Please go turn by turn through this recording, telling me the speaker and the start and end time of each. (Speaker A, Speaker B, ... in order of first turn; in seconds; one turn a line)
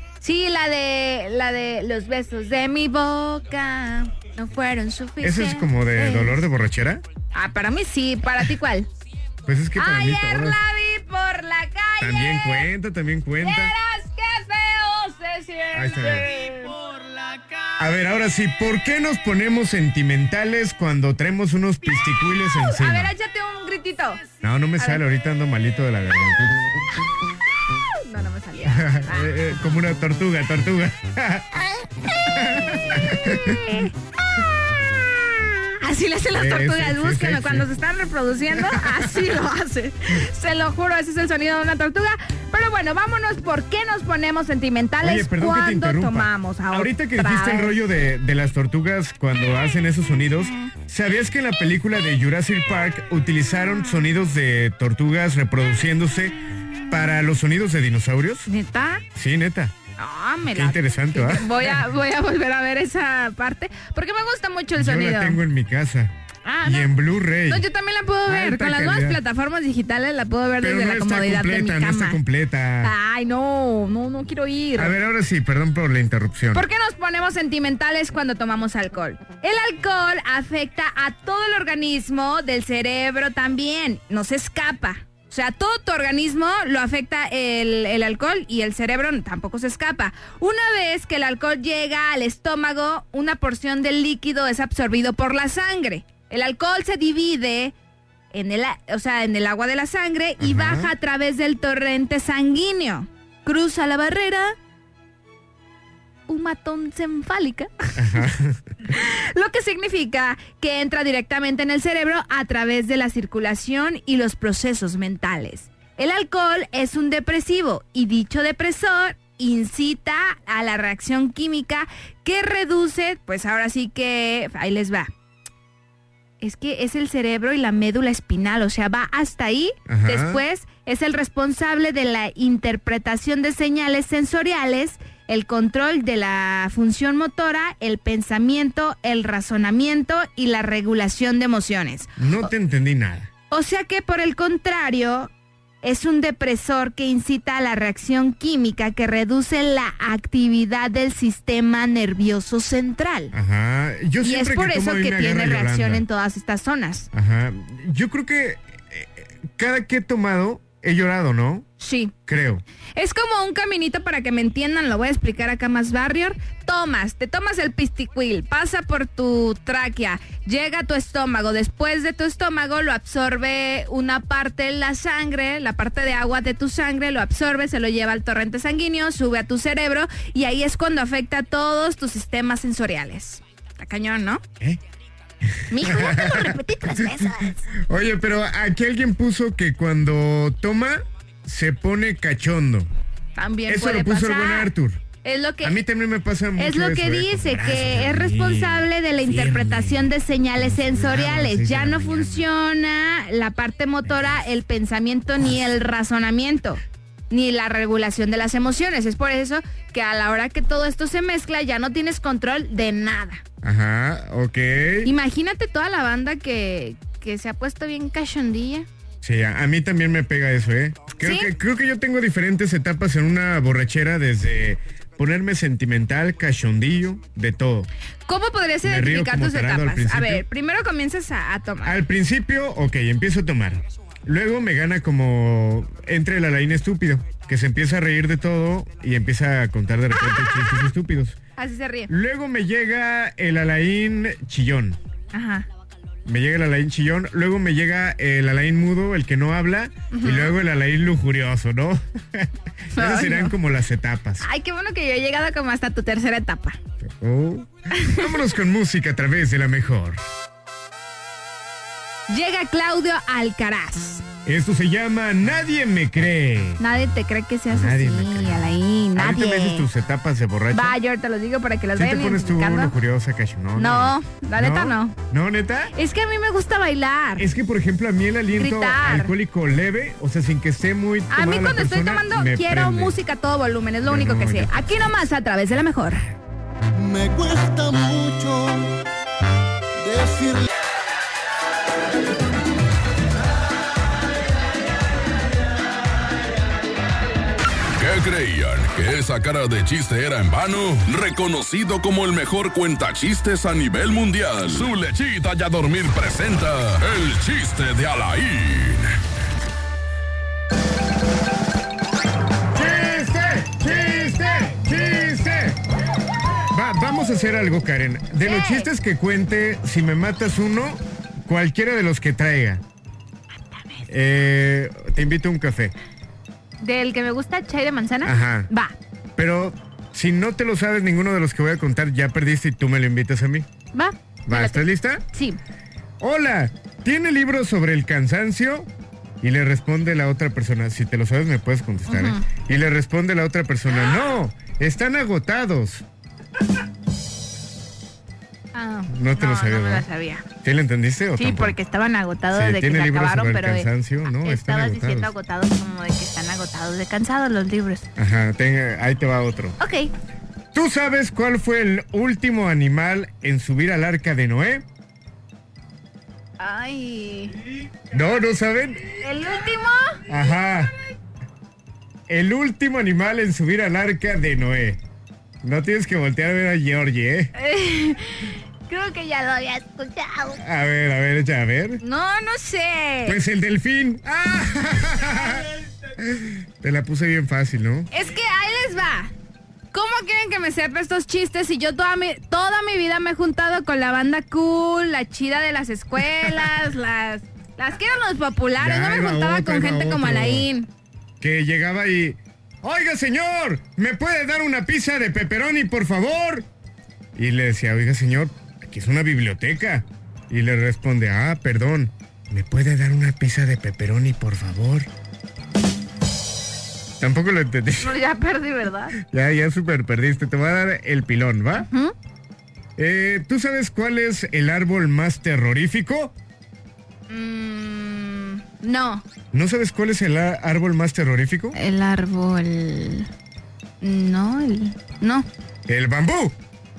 Speaker A: 0.2-6.4
Speaker B: 5.2-7.0
Speaker A: 7.3-8.9
Speaker B: 9.5-10.6
Speaker A: 9.8-12.7
Speaker B: 12.0-13.7
Speaker A: 13.4-16.8
Speaker B: 15.7-16.3
Speaker B: 17.8-23.1
Speaker A: 22.6-24.2
Speaker B: 24.4-26.7
Speaker A: 27.8-29.3
Speaker B: 28.7-33.6
Speaker A: 33.3-33.9
Speaker A: 35.7-47.8
Speaker B: 36.3-37.7
Speaker B: 38.5-39.2
Speaker B: 45.0-56.4
Speaker B: 56.9-58.5
Speaker A: 58.5-59.0
Speaker B: 59.1-59.7
Speaker A: 60.0-65.4
Speaker B: 60.5-61.8
Speaker B: 64.8-66.1
Speaker A: 66.5-67.0
Speaker B: 66.6-67.7
Speaker A: 67.5-72.2
Speaker B: 68.3-69.2
Speaker B: 70.6-72.9
Speaker A: 72.8-74.9
Speaker B: 74.8-76.7
Speaker A: 76.5-97.7
Speaker A: 98.3-104.5
Speaker B: 100.4-100.9
Speaker A: 106.3-108.3
Speaker B: 108.0-108.6
Speaker A: 108.8-125.1
Speaker A: 126.4-142.1
Speaker B: 129.9-130.4
Speaker B: 142.2-143.3
Speaker A: 143.5-145.3
Speaker A: 145.8-153.3
Speaker B: 153.3-156.0
Speaker A: 154.2-157.1
Speaker B: 157.1-161.7
Speaker A: 161.8-162.1
Speaker B: 162.3-162.6
Speaker A: 163.0-184.4
Speaker B: 185.6-192.9
Speaker A: 185.7-187.6
Speaker A: 193.4-194.7
Speaker B: 193.7-195.0
Speaker A: 195.2-195.8
Speaker B: 195.6-202.5
Speaker A: 196.6-213.4
Speaker B: 213.6-215.1
Speaker A: 215.1-218.9
Speaker B: 219.2-227.9
Speaker A: 221.2-221.5
Speaker A: 228.3-232.0
Speaker B: 228.8-230.4
Speaker B: 231.8-241.4
Speaker A: 241.6-242.1
Speaker B: 242.1-245.0
Speaker A: 245.3-245.7
Speaker B: 246.2-254.5
Speaker A: 250.1-250.5
Speaker A: 252.9-253.6
Speaker A: 254.4-256.8
Speaker B: 257.0-260.2
Speaker A: 258.0-258.3
Speaker A: 262.3-264.2
Speaker B: 264.4-266.8
Speaker A: 266.8-269.9
Speaker B: 267.7-271.0
Speaker A: 270.7-272.9
Speaker B: 271.9-275.9
Speaker A: 273.8-275.1
Speaker A: 275.9-277.5
Speaker B: 277.4-283.2
Speaker A: 278.6-279.3
Speaker A: 281.3-286.2
Speaker B: 284.0-284.9
Speaker C: 286.9-288.9
Speaker C: 290.0-290.7
Speaker D: 298.0-309.1
Speaker B: 312.7-315.8
Speaker B: 316.7-322.8
Speaker A: 318.4-318.9
Speaker A: 323.7-324.1
Speaker B: 324.1-325.9
Speaker A: 326.8-328.9
Speaker B: 328.2-328.7
Speaker B: 329.4-333.7
Speaker A: 333.9-335.6
Speaker B: 334.5-335.2
Speaker B: 336.2-338.9
Speaker B: 339.4-346.1
Speaker A: 342.1-342.5
Speaker A: 348.8-350.4
Speaker B: 349.1-350.1
Speaker B: 350.6-351.8
Speaker A: 351.4-358.1
Speaker B: 352.5-355.3
Speaker B: 358.2-359.8
Speaker A: 359.8-360.1
Speaker B: 360.7-364.9
Speaker A: 366.6-367.6
Speaker B: 368.1-369.2
Speaker A: 369.2-370.2
Speaker B: 370.3-370.9
Speaker B: 372.3-375.0
Speaker B: 375.6-377.5
Speaker A: 377.6-380.6
Speaker B: 380.6-382.0
Speaker A: 382.0-383.4
Speaker B: 383.3-388.1
Speaker A: 388.1-389.3
Speaker A: 389.9-400.9
Speaker B: 396.4-396.6
Speaker B: 398.8-400.7
Speaker B: 401.4-406.7
Speaker B: 407.4-415.1
Speaker B: 417.2-418.2
Speaker A: 418.0-419.2
Speaker B: 419.2-421.9
Speaker A: 421.7-422.1
Speaker B: 423.0-426.3
Speaker A: 427.3-429.2
Speaker B: 429.5-431.8
Speaker A: 431.7-433.3
Speaker A: 434.0-435.5
Speaker B: 435.9-436.6